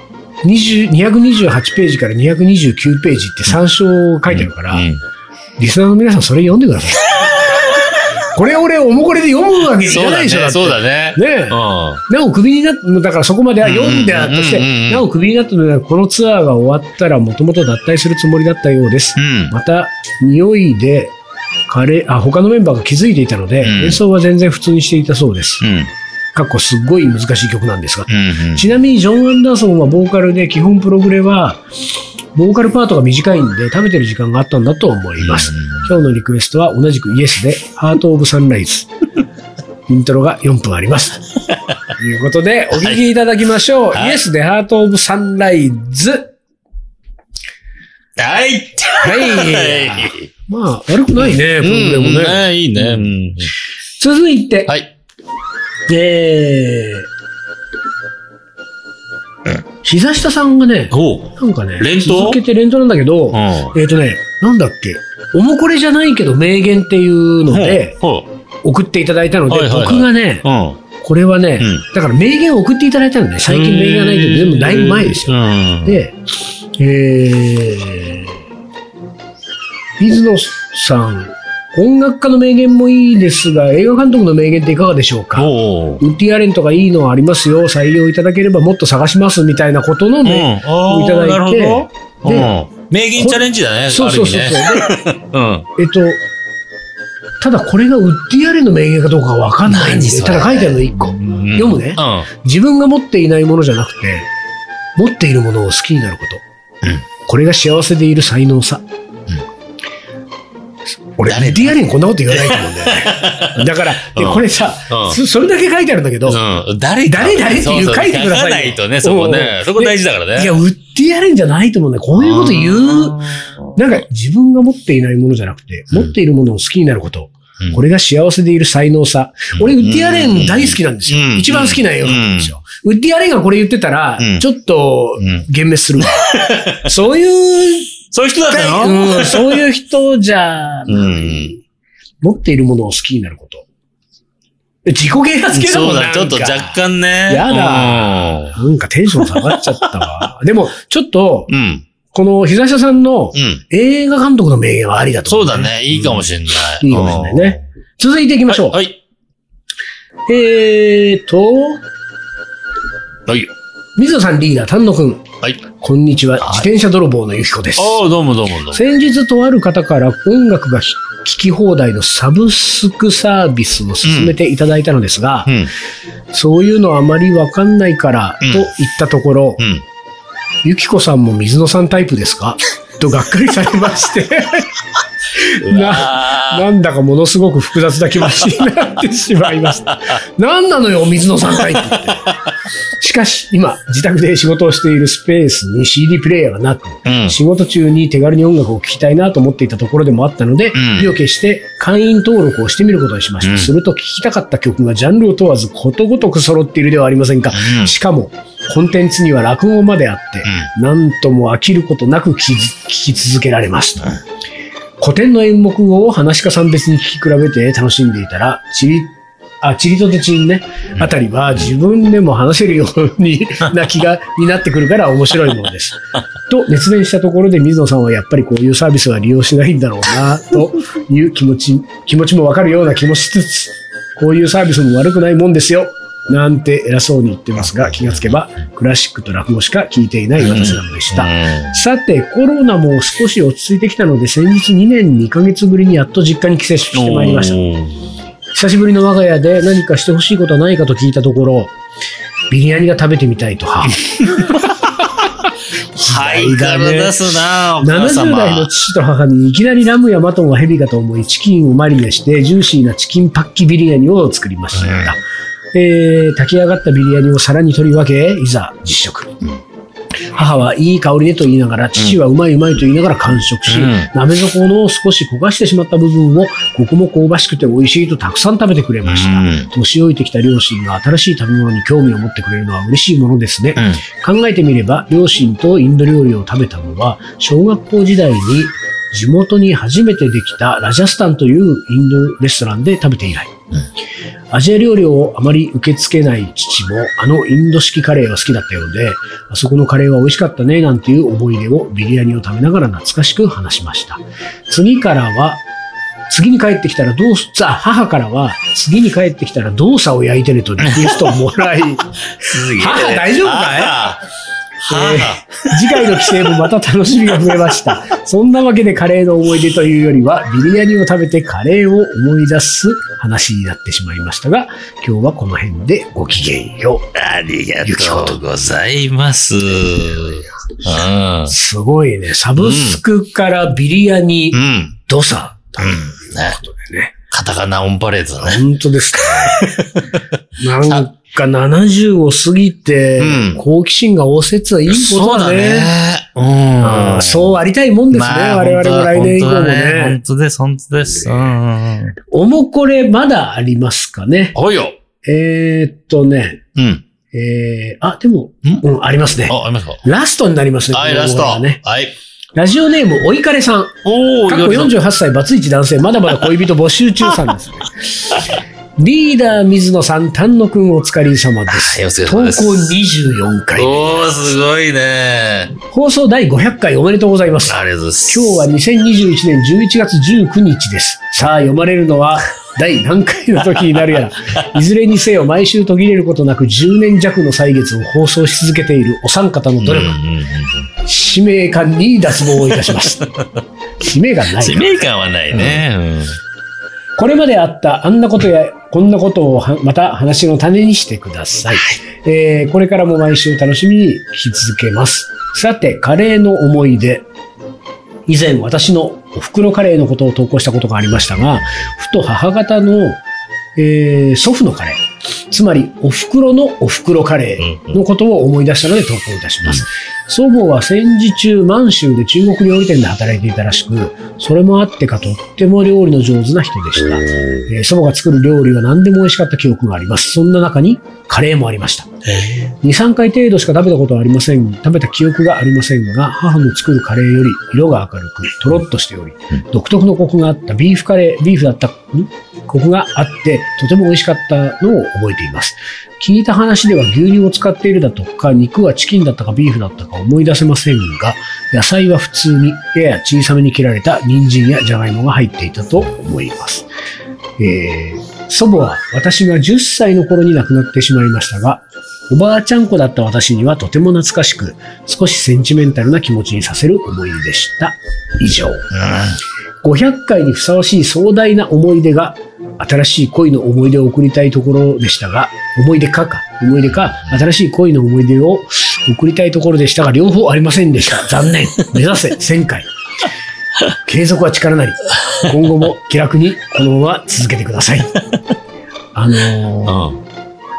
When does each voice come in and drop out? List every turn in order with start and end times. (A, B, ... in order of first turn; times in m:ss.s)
0:00.4-0:04.9 A
0:04.3-0:05.0 B
0:05.6-0:07.1 A
0:08.4-0:21.2 A
0:09.8-0:12.0 B
0:13.6-0:15.1 B
0:19.2-0:19.5 B
0:21.7-0:25.7 A
0:23.6-0:24.0 B
0:25.6-0:25.9 B
0:26.4-0:31.6 A
0:28.1-0:28.7 B
0:32.4-0:38.9 A
0:35.2-0:36.0 B
0:39.9-0:41.2 A
0:42.0-0:46.3 A
0:42.7-0:43.0 B
0:43.9-0:44.2 B
0:48.2-0:50.3 B
0:49.0-0:53.1 A
0:51.2-0:53.5 B
0:54.0-0:54.7 A
0:55.9-0:57.1 A
0:59.8-1:08.0 A
1:00.9-1:02.4 B
1:03.3-1:03.8 B
1:07.5-1:08.3 B
1:08.6-1:10.4 A
1:09.5-1:10.8 B
1:11.0-1:16.2 A
1:11.6-1:11.8 B
1:13.5-1:16.0 B
1:16.8-1:18.3 A
1:20.0-1:32.5 A
1:25.4-1:26.0 B
1:30.2-1:35.7 B
1:33.2-1:34.9 A
1:35.8-1:36.2 A
1:37.4-1:44.3 A
1:39.7-1:42.3 B
1:45.0-1:46.4 A
1:47.3-1:48.8 A
1:51.2-1:56.4 A
1:51.3-1:55.2 B
1:56.3-2:00.6 B
1:57.1-2:18.0 A
2:02.2-2:03.9 B
2:09.6-2:12.5 B
2:14.2-2:14.4 B
2:15.2-2:15.4 B
2:16.0-2:16.9 B
2:18.1-2:19.6 B
2:18.5-2:21.6 A
2:20.9-2:21.6 B
2:22.2-2:23.7 A
2:24.9-2:31.5 A
2:25.5-2:28.6 B
2:29.2-2:30.2 B
2:31.5-2:31.9 B
2:32.1-2:36.3 A
2:33.3-2:33.6 B
2:35.3-2:37.6 B
2:36.8-2:38.8 A
2:38.5-2:39.0 B
2:40.3-2:41.8 A
2:43.3-2:43.5 B
2:44.0-2:45.2 A
2:45.8-2:48.0 A
2:46.4-2:46.7 B
2:47.8-2:48.8 B
2:48.7-2:55.5 A
2:54.0-2:54.4 B
2:55.5-2:55.7 B
2:56.3-2:59.6 A
2:58.4-2:58.7 B
2:59.6-2:59.8 B
3:00.6-3:04.7 A
3:05.3-3:12.3 A
3:05.6-3:06.7 B
3:13.0-3:34.2 A
3:17.1-3:17.4 B
3:20.7-3:21.1 B
3:23.4-3:23.7 B
3:27.5-3:27.9 B
3:35.0-4:07.6 A
3:57.9-3:58.3 B
4:00.4-4:01.8 B
4:06.9-4:08.1 B
4:08.5-4:11.7 A
4:12.5-4:14.4 A
4:14.0-4:15.3 B
4:16.0-4:17.3 A
4:16.0-4:18.7 B
4:17.8-4:25.2 A
4:24.8-4:25.2 B
4:25.7-4:29.4 A
4:30.3-4:53.6 A
4:33.7-4:34.1 B
4:39.0-4:39.7 B
4:43.8-4:44.0 B
4:54.5-5:05.6 A
5:06.3-5:14.1 A
5:10.8-5:11.3 B
5:12.4-5:14.2 B
5:14.8-5:16.5 B
5:14.9-5:27.1 A
5:27.1-5:31.5 B
5:27.8-5:28.4 A
5:31.5-5:37.2 A
5:32.6-5:33.0 B
5:34.5-5:35.0 B
5:35.8-5:36.6 B
5:37.3-5:38.6 B
5:38.4-5:39.8 A
5:39.2-5:40.2 B
5:40.6-5:45.9 A
5:43.2-5:43.6 B
5:44.9-5:47.6 B
5:46.8-5:50.2 A
5:48.1-5:52.2 B
5:52.2-5:54.6 A
5:54.6-5:55.0 B
5:55.2-5:56.6 A
5:56.8-5:57.0 B
5:57.3-6:01.8 A
5:59.5-6:00.0 B
6:00.9-6:02.2 B
6:02.6-6:08.4 A
6:04.0-6:04.9 B
6:09.0-6:14.1 A
6:11.7-6:12.9 B
6:13.8-6:15.8 B
6:15.9-6:30.2 A
6:17.7-6:18.6 B
6:29.8-6:30.9 B
6:31.0-6:33.3 A
6:32.7-6:33.4 B
6:34.0-6:35.0 A
6:34.6-6:36.4 B
6:37.2-6:47.3 A
6:48.3-6:53.2 A
6:53.8-7:36.9 A
6:57.6-6:58.0 B
7:07.0-7:07.7 B
7:37.6-7:48.9 A
7:48.9-7:49.4 B
7:49.8-8:02.9 A
8:04.0-8:08.2 A
8:09.2-8:10.1 A
8:09.9-8:10.2 B